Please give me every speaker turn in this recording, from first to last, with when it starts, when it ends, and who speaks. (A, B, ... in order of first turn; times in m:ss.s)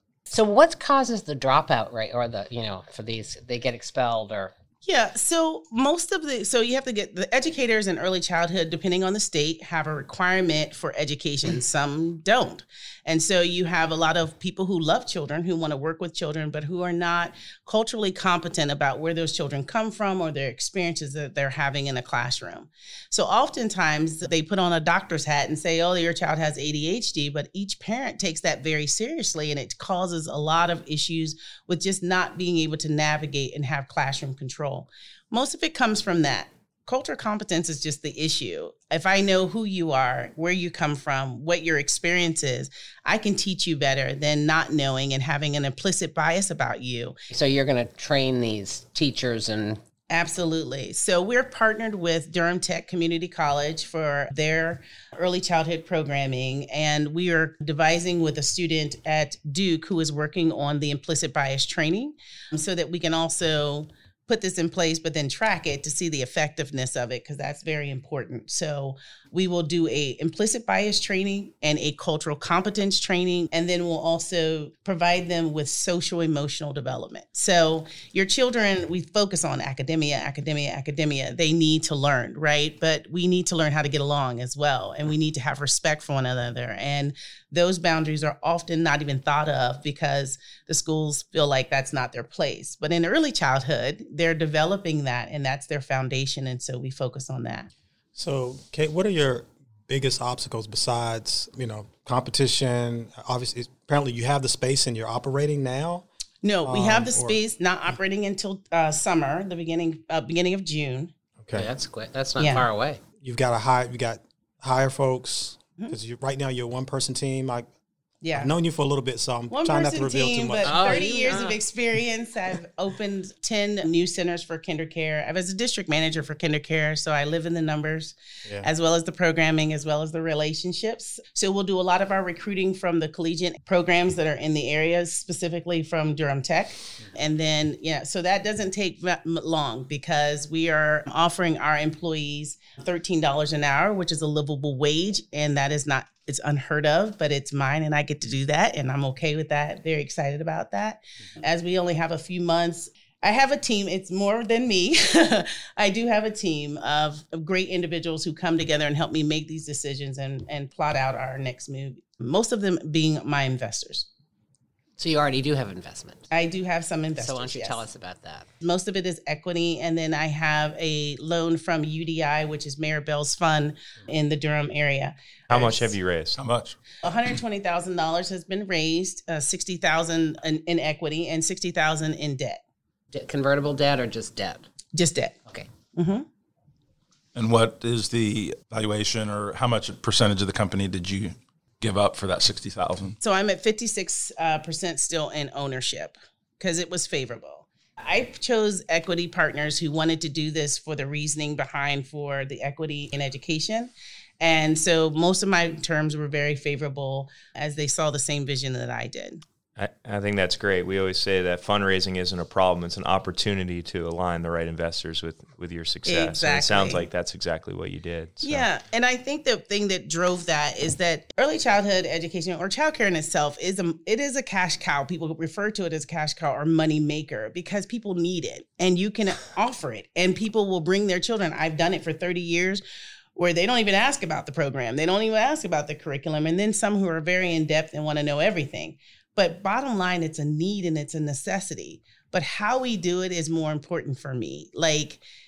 0:00.3-0:04.5 A
0:04.8-0:47.2 B
0:47.3-0:49.8 A
0:50.1-1:37.7 B
1:38.2-1:46.1 C
1:46.4-1:51.1 B
1:46.6-1:47.4 C
1:51.4-1:51.7 C
1:51.5-1:53.0 A
1:52.4-1:52.6 B
1:53.2-1:57.7 C
1:58.2-1:58.5 B
1:58.3-2:01.0 C
1:59.5-2:44.1 B
2:00.6-2:01.6 A
2:45.0-2:46.2 A
2:46.3-2:47.8 B
2:47.2-2:48.5 A
2:48.6-2:55.9 B
2:55.5-2:56.4 D
2:56.4-2:56.8 E
2:57.0-3:02.6 B
3:03.1-3:04.7 A
3:04.9-3:05.4 B
3:05.9-3:06.2 B
3:07.4-3:13.2 E
3:13.2-3:29.4 B
3:29.8-3:38.6 D
3:36.0-3:37.0 B
3:38.4-3:52.8 B
3:53.4-4:05.2 B